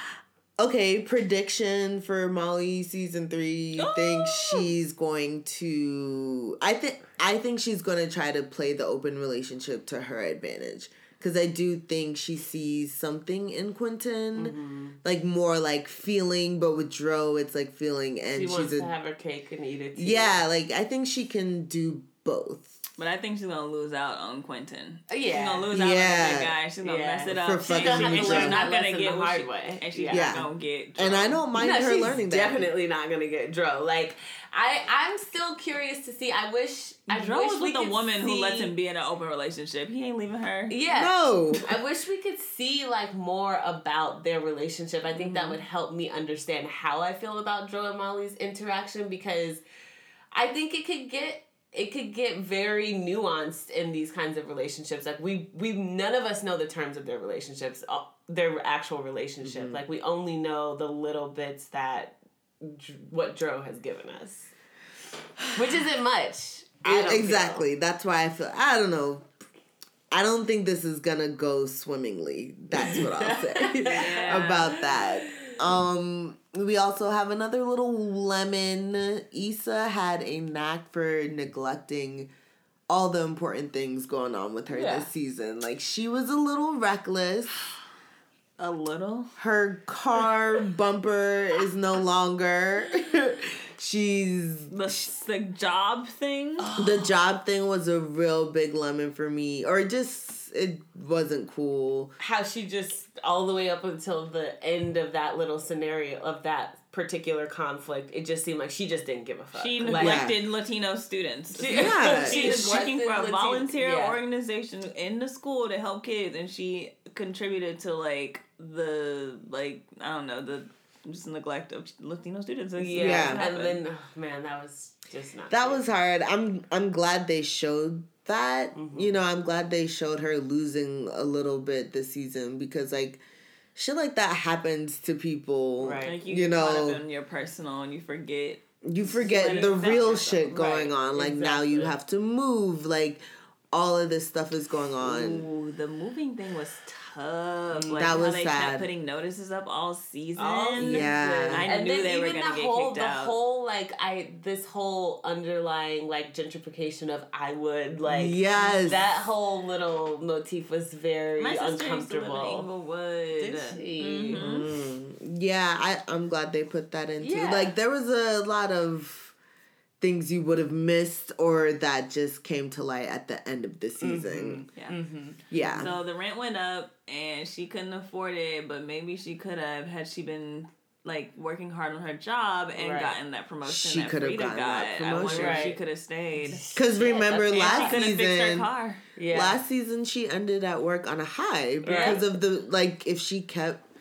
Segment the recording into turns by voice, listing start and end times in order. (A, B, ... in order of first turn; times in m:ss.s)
0:00.6-0:18.9 A
0:03.8-0:04.7 B
0:14.4-0:15.0 C
0:18.3-0:20.4 C
0:20.0-0:22.8 A
0:23.0-0:31.4 B
0:25.1-0:25.7 C
0:25.7-0:26.5 A
0:26.8-0:30.3 C
0:27.3-0:28.6 A
0:30.1-0:32.7 A
0:31.6-0:38.7 C
0:37.1-0:40.8 B
0:40.7-0:49.6 C
0:40.9-0:41.7 A
0:45.1-0:45.6 B
0:50.3-1:04.5 C
0:59.4-0:59.8 A
1:05.6-1:07.7 C
1:06.8-1:09.3 A
1:10.1-1:22.3 A
1:12.8-1:15.6 C
1:13.9-1:14.8 B
1:22.9-1:27.6 A
1:24.7-1:25.1 C
1:28.6-1:29.3 B
1:29.4-1:34.7 A
1:34.7-1:36.8 B
1:36.8-1:42.1 A
1:42.2-1:50.3 C
1:49.5-2:03.8 B
1:49.8-1:50.4 A
1:51.5-1:54.2 C
1:51.7-1:52.8 A
2:02.8-2:05.8 C
2:03.0-2:03.4 A
2:05.5-2:13.2 A
2:08.7-2:09.2 C
2:13.8-2:17.0 A
2:15.8-2:16.2 C
2:16.0-2:20.8 B
2:18.8-2:25.5 A
2:19.2-2:21.9 C
2:25.0-2:33.4 B
2:27.7-2:28.2 C
2:27.9-2:28.9 A
2:30.4-2:42.7 C
2:30.8-2:31.7 A
2:38.1-2:39.0 A
2:41.4-2:44.7 B
2:43.4-2:44.5 C
2:44.4-2:49.3 A
2:47.2-2:47.8 C
2:50.0-2:54.6 A
2:54.0-2:55.9 C
2:55.5-2:55.9 A
2:55.5-3:06.6 B
3:02.8-3:03.2 C
3:03.6-3:05.8 A
3:05.3-3:05.8 C
3:06.4-3:08.1 C
3:06.7-3:08.7 A
3:07.5-3:09.0 B
3:09.2-3:09.6 C
3:09.3-3:13.8 A
3:11.8-3:12.2 C
3:11.9-3:12.3 B